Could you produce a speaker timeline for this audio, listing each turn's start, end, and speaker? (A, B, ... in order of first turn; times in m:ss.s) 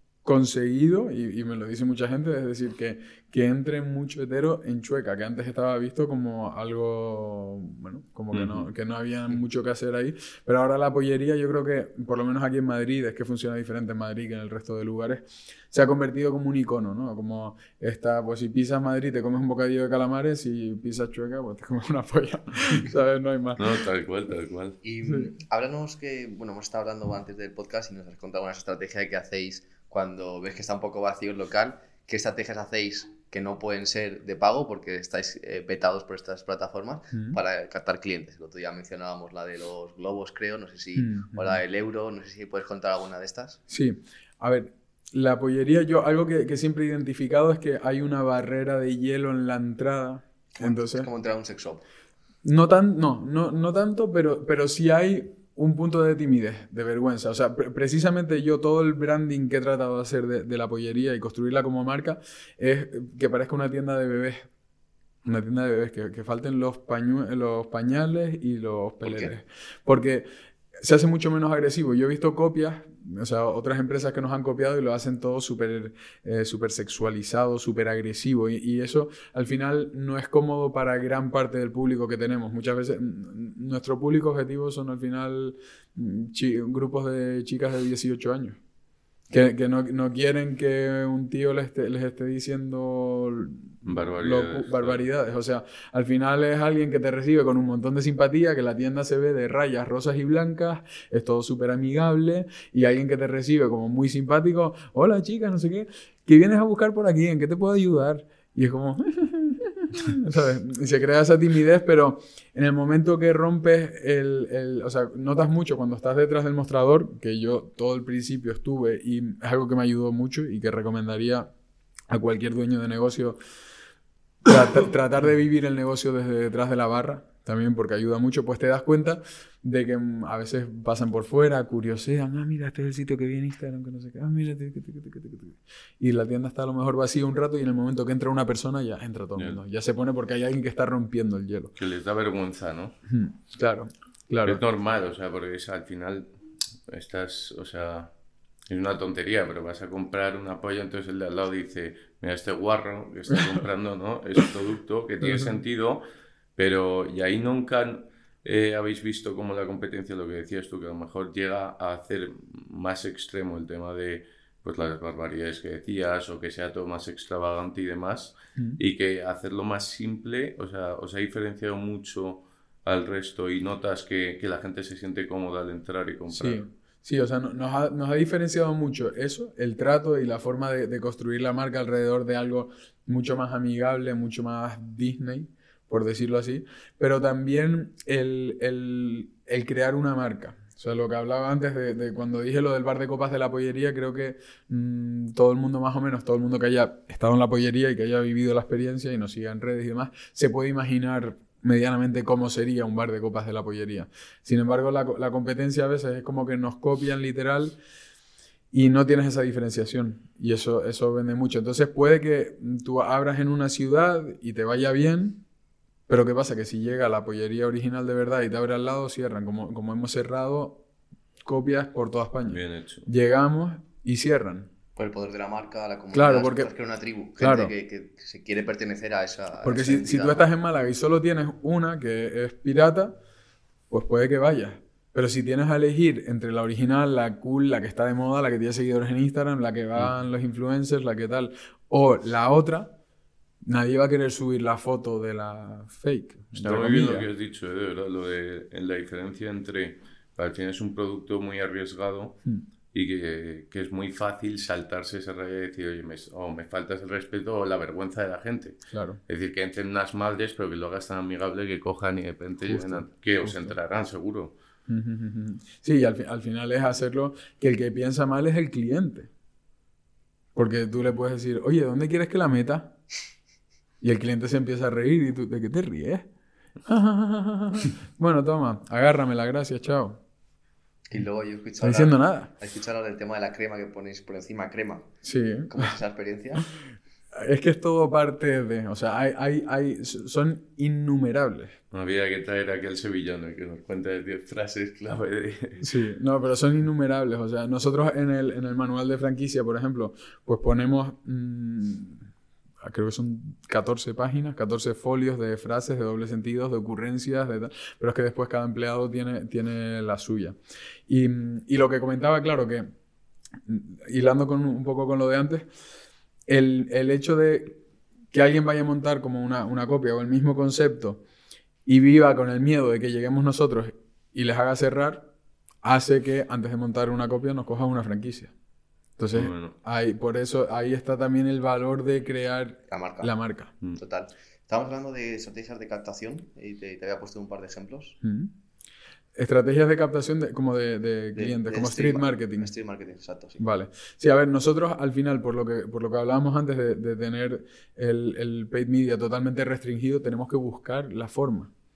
0:00.2-0:23.8 A
0:08.3-0:08.7 B
0:23.6-0:24.8 B
0:24.8-0:43.6 C
0:25.0-0:25.3 A
0:37.1-0:37.4 A
0:41.0-0:41.6 A
0:43.7-0:51.1 A
0:50.6-0:51.8 C
0:52.4-1:04.5 A
1:05.2-1:10.3 A
1:09.0-1:09.3 C
1:10.8-1:28.6 A
1:29.3-2:01.5 A
1:33.8-1:35.0 B
2:02.1-2:03.4 A
2:04.4-2:21.8 A
2:19.4-2:19.6 B
2:21.8-2:23.0 B
2:23.1-2:24.6 A
2:24.4-2:28.1 B
2:28.7-2:36.0 B
2:35.2-2:35.6 A
2:36.6-2:56.6 B
2:56.3-3:27.8 A
3:28.7-3:35.4 A
3:36.1-3:40.8 A
3:41.4-3:44.7 A
3:42.5-3:43.1 B
3:45.0-3:50.5 C
3:46.1-3:46.7 A
3:47.4-3:47.7 A
3:49.6-3:53.2 A
3:53.9-4:02.9 A
4:03.6-4:07.3 A
4:06.5-4:12.4 B
4:12.9-4:24.5 B
4:18.9-4:19.2 A
4:22.6-4:23.8 A
4:24.9-4:29.3 A
4:30.6-4:33.0 A
4:34.0-4:36.3 A
4:36.9-4:40.2 A
4:41.1-4:45.1 C
4:41.8-4:42.5 A
4:45.2-4:45.9 A
4:45.7-4:46.7 C
4:47.4-4:51.8 A
4:51.9-4:55.9 B
4:55.8-5:02.2 A
5:02.8-5:10.6 A
5:11.1-5:12.9 A
5:13.7-5:15.7 A
5:16.5-5:17.8 A
5:18.3-5:21.2 A
5:21.9-5:25.3 A
5:25.8-5:28.5 A
5:29.2-5:33.8 A
5:29.3-5:29.8 B
5:32.9-5:33.3 C
5:34.0-5:38.2 C
5:38.2-5:38.5 A
5:39.4-5:42.7 A
5:41.4-5:43.6 C
5:43.6-5:51.7 A